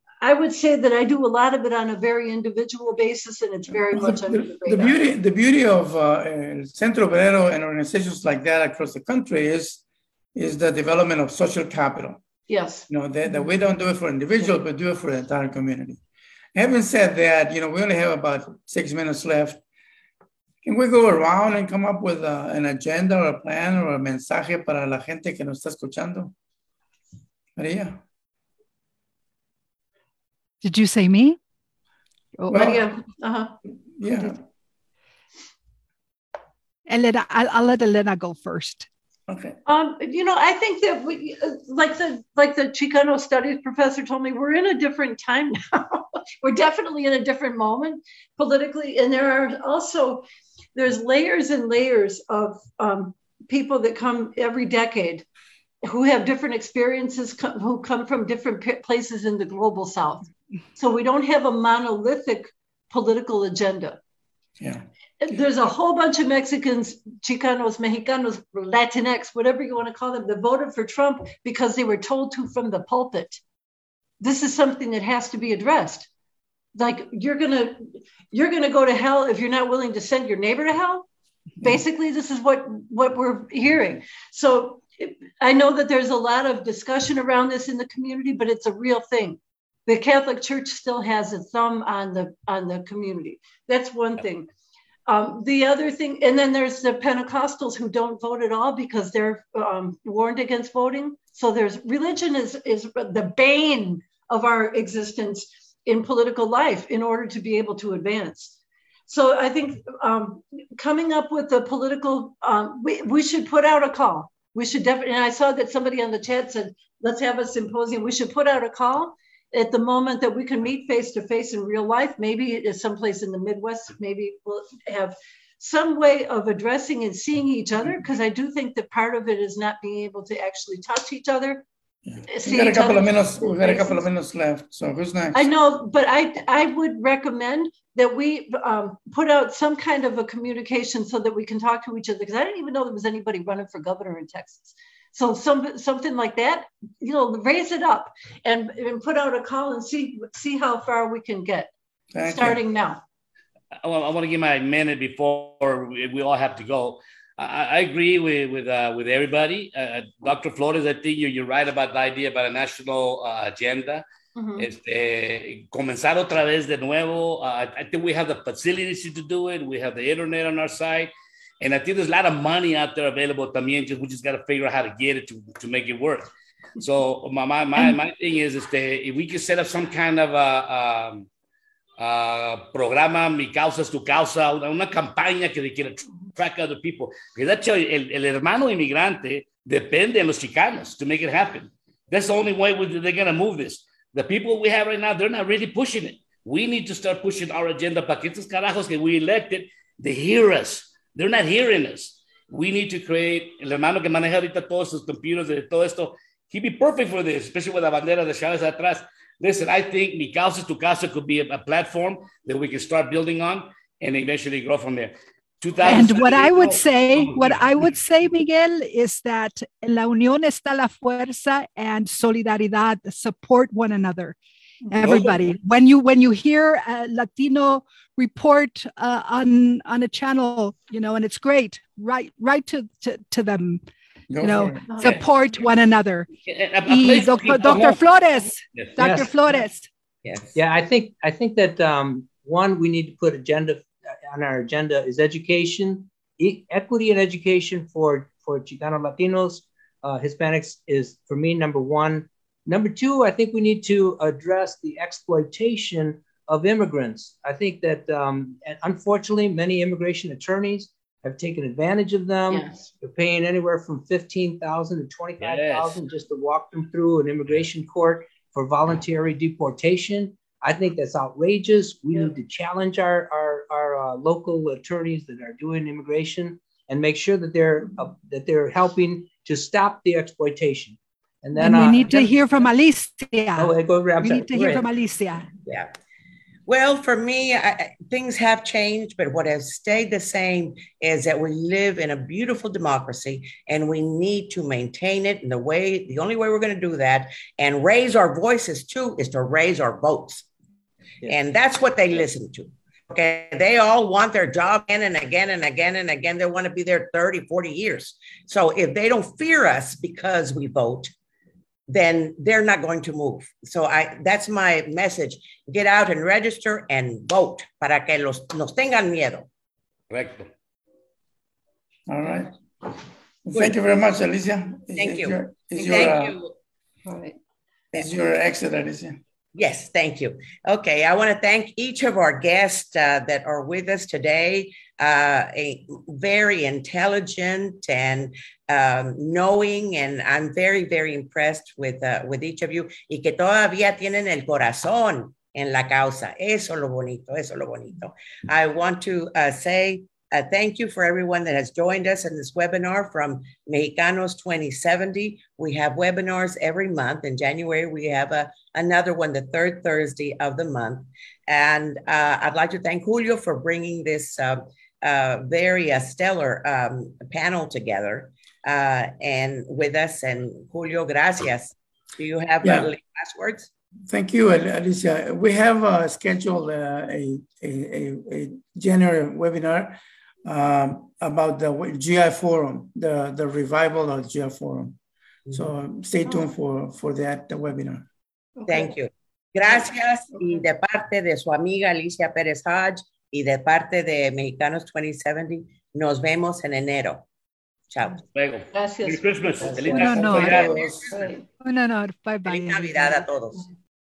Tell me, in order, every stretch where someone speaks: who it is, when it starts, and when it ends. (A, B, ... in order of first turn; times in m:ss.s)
0:00.2-0:05.0 A
0:03.7-0:09.8 B
0:10.3-0:12.2 B
0:12.5-0:12.8 A
0:12.9-0:16.0 B
0:16.5-0:19.6 B
0:20.6-0:26.3 B
0:27.6-0:28.0 B
0:30.6-0:31.4 C
0:32.4-0:32.8 C
0:32.5-0:32.9 B
0:32.6-0:33.5 A
0:34.0-0:34.4 B
0:36.9-0:38.9 C
0:39.3-0:39.6 B
0:39.6-0:55.2 A
0:55.8-1:04.0 A
1:04.6-1:05.4 B
1:05.2-1:13.4 A
1:14.2-1:16.1 A
1:16.7-1:21.1 A
1:21.6-1:34.5 A
1:35.1-1:48.6 A
1:49.1-2:11.7 A
2:12.0-2:15.5 B
2:12.3-2:14.0 A
2:15.3-2:31.7 A
2:32.1-2:32.6 B
2:32.2-2:33.0 A
2:33.8-2:44.0 D
2:44.4-2:44.7 A
2:44.6-3:01.3 D
3:02.0-3:37.6 D
3:35.8-3:44.4 C
3:44.9-3:53.8 C
3:45.0-3:45.4 D
3:54.3-3:54.8 B
3:54.4-3:56.3 C
3:54.9-3:55.2 A
3:56.5-3:58.0 D
3:56.8-3:59.9 C
3:59.0-3:59.3 E
4:00.2-4:00.5 F
4:00.5-4:42.4 E
4:22.5-4:22.9 A
4:25.4-4:26.0 D
4:41.6-4:45.5 C
4:43.6-4:44.9 E
4:46.7-5:00.4 F
5:01.3-5:11.1 F
5:11.9-5:19.5 F
5:20.1-5:20.5 D
5:22.1-5:22.5 B
5:23.4-5:26.4 B
5:25.0-5:26.5 F
5:27.0-5:27.4 A
5:27.9-5:29.2 B
5:29.5-6:13.7 F
6:12.6-6:12.9 B
6:14.1-6:25.0 B
6:25.5-6:28.1 B
6:28.6-6:28.9 A
6:28.7-6:37.2 F
6:37.9-6:38.2 F
6:38.3-6:40.8 D
6:38.7-6:39.6 A
6:39.6-6:41.1 F
6:39.9-6:40.6 C
6:39.9-6:41.1 B
6:41.1-6:41.4 A
6:41.6-6:43.2 C
6:42.5-6:43.7 F